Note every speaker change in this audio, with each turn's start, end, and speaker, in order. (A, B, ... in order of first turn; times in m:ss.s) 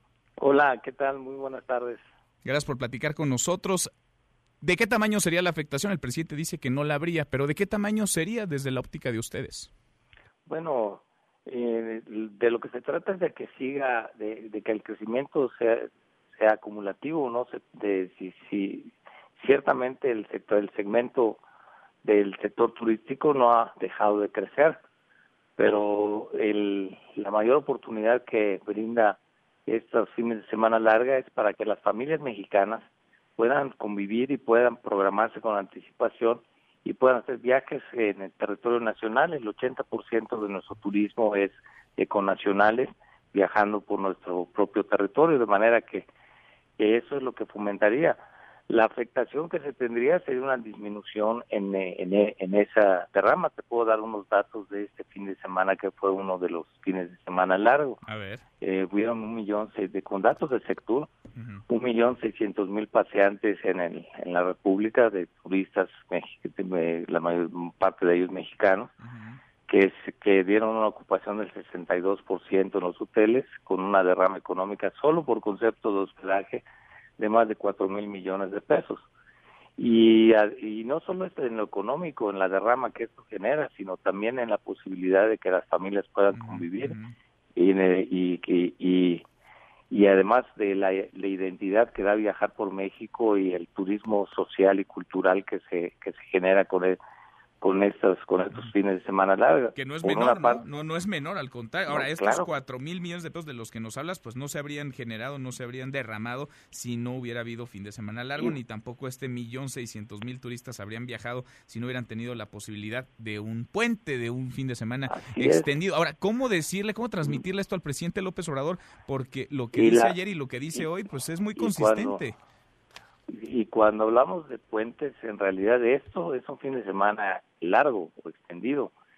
0:00.4-0:02.0 A
0:02.4-0:03.9 B
0:04.6-0:09.7 B
0:10.5-0:21.4 A
0:22.0-0:24.8 A
0:25.6-0:46.1 A
0:46.8-0:48.2 A
0:48.7-0:58.0 A
0:58.0-0:58.4 B
0:58.6-1:01.1 A
1:01.3-1:01.6 B
1:01.7-1:08.9 A
1:09.0-1:09.4 B
1:09.7-1:16.6 A
1:17.2-1:19.1 A
1:19.8-1:27.0 A
1:26.3-1:27.1 B
1:27.5-1:29.2 A
1:29.9-1:37.0 A
1:37.6-1:40.6 A
1:39.7-2:02.4 B
1:41.9-1:42.5 A
1:55.1-1:55.7 A
1:59.7-2:00.2 A
2:01.6-2:02.2 A
2:03.3-2:08.9 A